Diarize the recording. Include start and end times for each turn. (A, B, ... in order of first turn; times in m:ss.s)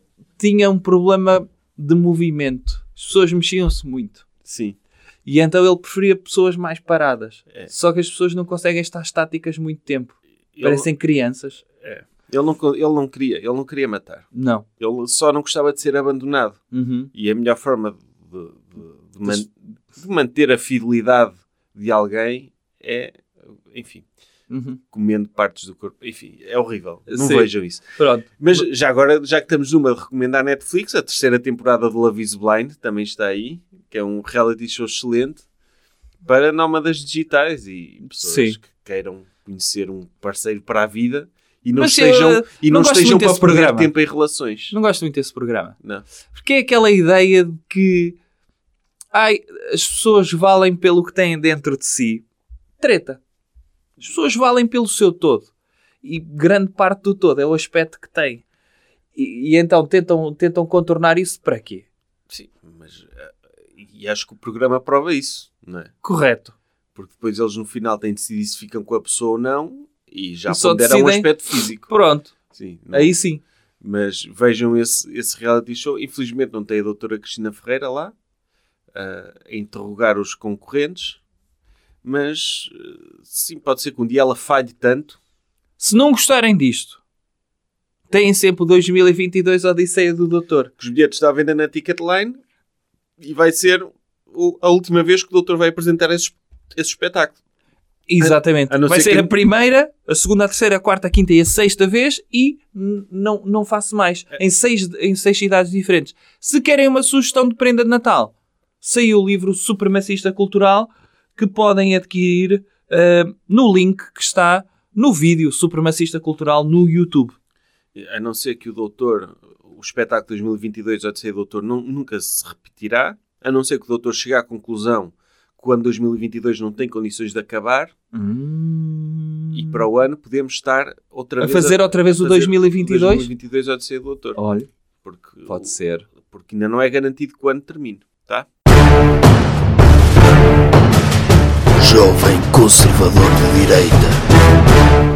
0:00.4-0:04.2 A
0:04.4-0:04.8 B
0:05.3-0:11.6 A
0:10.6-0:10.9 B
0:11.8-0:16.6 B
0:14.3-0:14.6 A
0:16.7-0:17.1 A
0:17.1-0:24.1 B
0:24.5-0:24.8 A
0:24.9-0:27.9 B
0:27.1-0:28.7 A
0:28.4-0:35.4 B
0:36.2-0:44.8 B
0:38.1-0:38.6 A
0:41.8-0:43.9 A
0:44.7-0:45.8 A
0:46.3-0:48.2 A
0:49.1-0:52.2 A
0:52.8-0:53.2 A
0:54.0-0:55.5 A
0:56.0-0:58.4 A
0:59.2-1:01.9 A
1:02.3-1:05.9 B
1:06.0-1:06.6 A
1:07.0-1:11.9 B
1:10.5-1:12.3 A
1:12.5-1:13.2 B
1:12.9-1:13.4 A
1:13.8-1:18.2 B
1:18.9-1:21.2 B
1:22.0-1:25.2 B
1:25.8-1:27.0 A
1:28.1-1:30.7 A
1:30.8-1:32.4 B
1:33.2-1:37.4 B
1:38.1-1:57.4 A
1:38.2-1:39.3 B
1:58.0-2:07.9 B
2:08.1-2:09.8 A
2:09.5-2:14.4 B
2:11.4-2:13.3 A
2:14.4-2:14.7 A
2:15.0-2:18.5 B
2:15.5-2:16.1 A
2:21.8-2:24.2 C